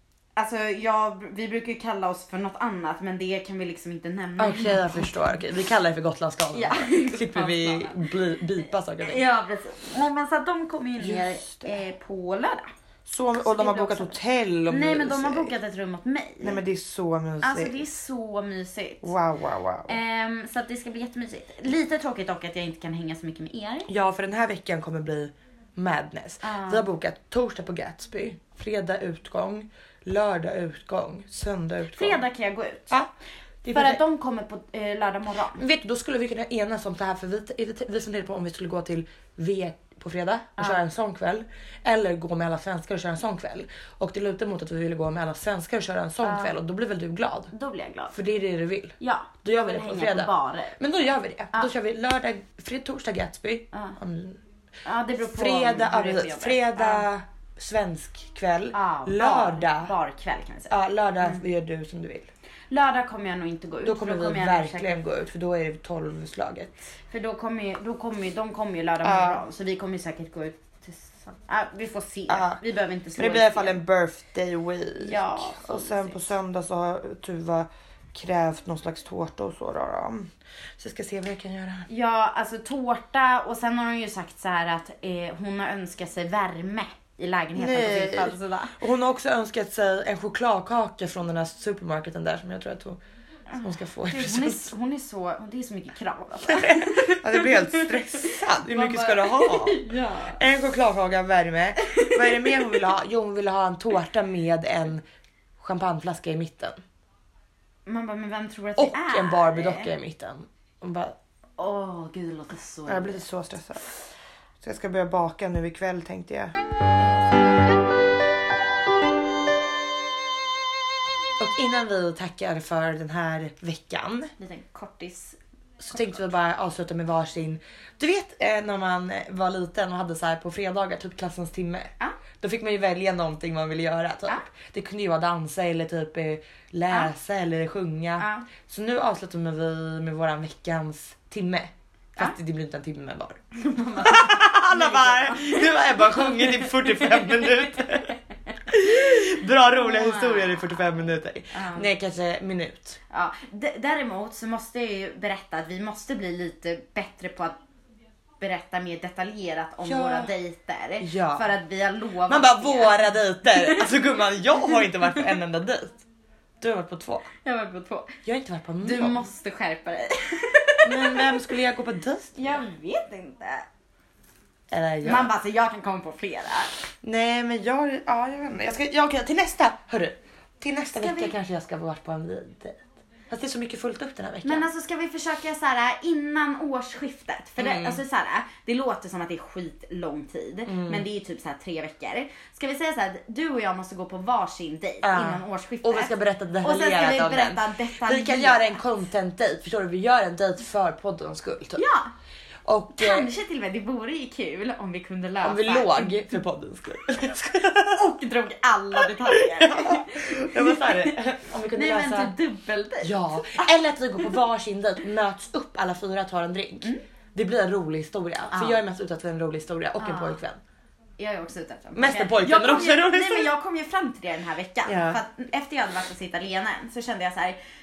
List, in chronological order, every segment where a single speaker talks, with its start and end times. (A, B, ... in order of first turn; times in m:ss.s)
0:00.4-0:05.2 A
0:04.4-0:09.2 B
0:06.5-0:08.1 A
0:09.0-0:12.7 A
0:11.0-0:11.8 B
0:13.0-0:15.5 B
0:13.4-0:14.2 A
0:14.7-0:16.6 A
0:16.4-0:17.8 B
0:17.4-0:19.1 A
0:19.0-0:20.0 B
0:19.9-0:23.9 A
0:23.9-0:32.2 B
0:26.4-0:26.9 A
0:31.9-0:33.0 A
0:33.6-0:34.0 B
0:33.7-0:35.6 A
0:35.5-0:47.5 B
0:40.6-0:40.8 A
0:46.2-0:46.5 A
0:47.5-0:48.1 A
0:48.1-0:54.4 B
0:49.0-0:50.8 A
0:54.8-0:57.0 A
0:55.2-0:59.9 B
0:58.7-1:01.4 A
1:00.7-1:02.3 B
1:02.7-1:05.0 A
1:03.8-1:06.9 B
1:07.1-1:13.8 A
1:09.0-1:09.4 B
1:12.3-1:12.6 B
1:13.2-1:21.9 B
1:15.0-1:16.2 A
1:21.9-1:28.8 A
1:27.5-1:33.0 B
1:33.5-1:40.4 A
1:33.6-1:34.7 B
1:36.5-1:39.8 B
1:40.4-1:45.0 B
1:41.8-1:42.7 A
1:45.6-1:46.8 B
1:47.9-1:49.9 A
1:48.8-1:51.2 B
1:51.6-1:53.2 A
1:52.9-1:53.8 B
1:54.6-1:56.5 B
1:57.0-1:57.3 A
2:01.4-2:04.3 B
2:04.4-2:05.4 A
2:05.8-2:23.4 B
2:05.9-2:06.2 A
2:18.2-2:18.5 A
2:23.5-2:30.9 A
2:24.0-2:28.1 B
2:28.7-2:33.0 B
2:31.5-2:31.9 A
2:33.1-2:37.6 A
2:38.4-2:44.0 A
2:39.8-2:40.3 B
2:41.0-2:41.5 B
2:42.3-2:46.0 B
2:46.6-2:47.3 B
2:47.4-2:48.1 A
2:48.2-2:49.2 B
2:48.8-2:51.4 A
2:50.8-2:52.6 B
2:52.4-2:53.6 A
2:54.7-2:55.3 B
2:55.0-2:56.7 A
2:57.0-3:04.7 B
3:01.0-3:01.3 A
3:04.4-3:18.8 A
3:07.6-3:08.0 B
3:10.6-3:11.0 B
3:15.0-3:21.8 B
3:21.8-3:22.1 A
3:22.6-3:23.3 B
3:22.9-3:26.2 A
3:25.4-3:28.1 B
3:28.0-3:31.2 A
3:29.0-3:32.3 B
3:31.7-3:34.3 A
3:33.0-3:40.6 B
3:38.5-3:38.8 A
3:40.0-3:40.4 A
3:41.2-3:47.6 A
3:42.0-3:43.5 B
3:44.8-3:45.2 B